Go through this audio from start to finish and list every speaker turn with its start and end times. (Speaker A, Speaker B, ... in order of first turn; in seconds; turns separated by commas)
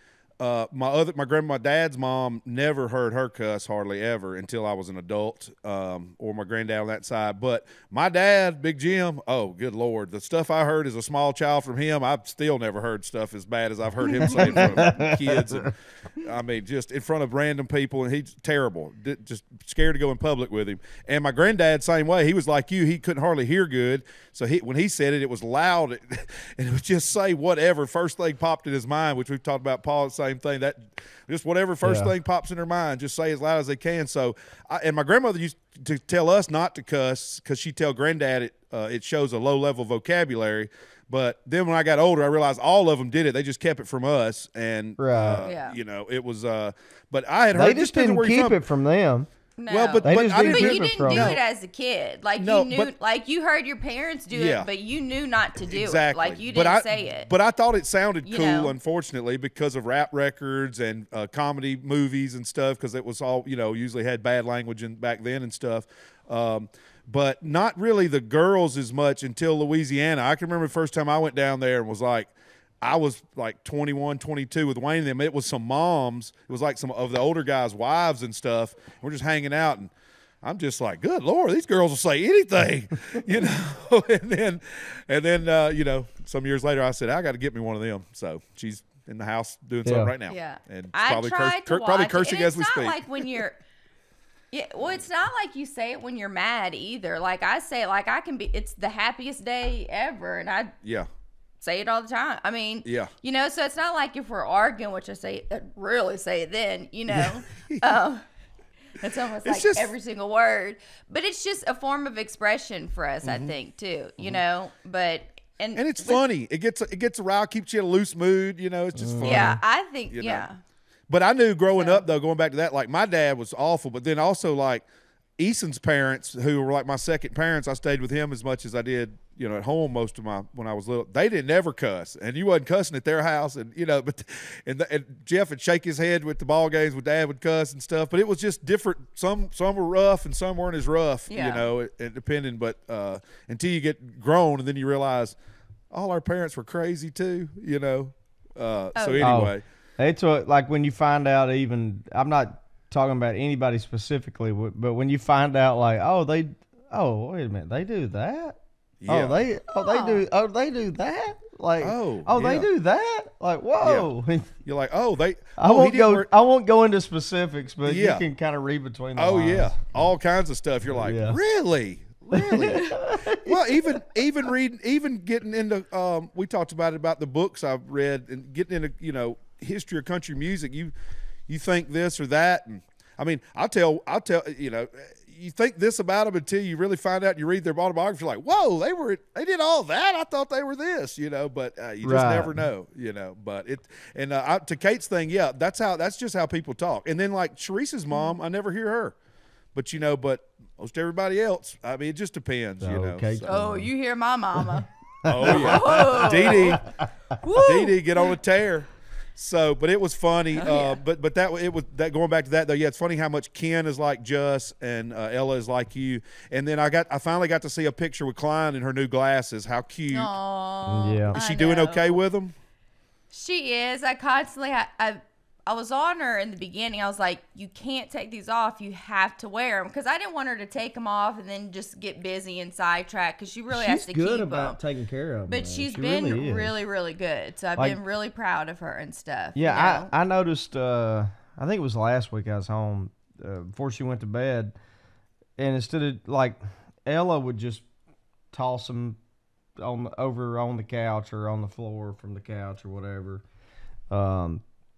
Speaker A: 0.4-48.6, Speaker B: 14.2-14.6, Speaker C: 14.3-15.7, Speaker C: 31.8-32.1, Speaker C: 45.0-45.5, Speaker B: 45.4-45.8, Speaker C: 47.5-49.3, Speaker B: 49.6-57.3, Speaker A: 49.7-51.4, Speaker C: 50.0-51.4, Speaker A: 52.4-52.9, Speaker A: 54.3-54.7, Speaker A: 55.7-72.3, Speaker B: 58.2-58.7, Speaker A: 72.8-79.9, Speaker A: 80.4-93.4, Speaker C: 89.8-90.1, Speaker B: 90.3-93.6, Speaker B: 94.5-100.7, Speaker B: 101.6-108.2, Speaker A: 102.8-103.1, Speaker A: 107.1-107.9, Speaker B: 109.0-116.2, Speaker A: 109.4-109.9, Speaker A: 113.2-113.5, Speaker A: 115.8-119.6, Speaker C: 118.9-119.6, Speaker B: 119.2-120.6, Speaker A: 120.1-120.5, Speaker A: 121.1-124.8, Speaker B: 121.8-122.0, Speaker A: 125.4-145.3, Speaker B: 141.3-141.7, Speaker A: 145.9-149.6, Speaker B: 148.9-149.4, Speaker C: 149.2-164.5, Speaker A: 159.0-159.4, Speaker B: 159.7-160.2, Speaker A: 161.8-162.7, Speaker A: 163.8-164.1, Speaker A: 164.6-166.3, Speaker C: 165.6-169.7, Speaker A: 167.8-168.2, Speaker A: 169.2-180.9, Speaker C: 170.9-171.4, Speaker C: 172.3-174.0, Speaker A: 181.5-199.1, Speaker C: 192.0-192.6, Speaker A: 199.7-203.4, Speaker C: 202.8-203.9, Speaker B: 203.4-204.9, Speaker C: 205.2-206.8, Speaker A: 205.3-206.8, Speaker B: 205.4-206.8, Speaker B: 207.4-208.3, Speaker A: 207.5-220.3, Speaker B: 210.5-211.0, Speaker B: 220.1-222.2, Speaker C: 220.8-221.3, Speaker A: 221.3-222.5, Speaker B: 223.3-234.8, Speaker C: 233.7-236.7, Speaker B: 235.5-240.1, Speaker C: 239.5-244.7, Speaker C: 245.6-247.8, Speaker C: 248.5-249.2, Speaker C: 249.8-253.4, Speaker C: 254.1-254.6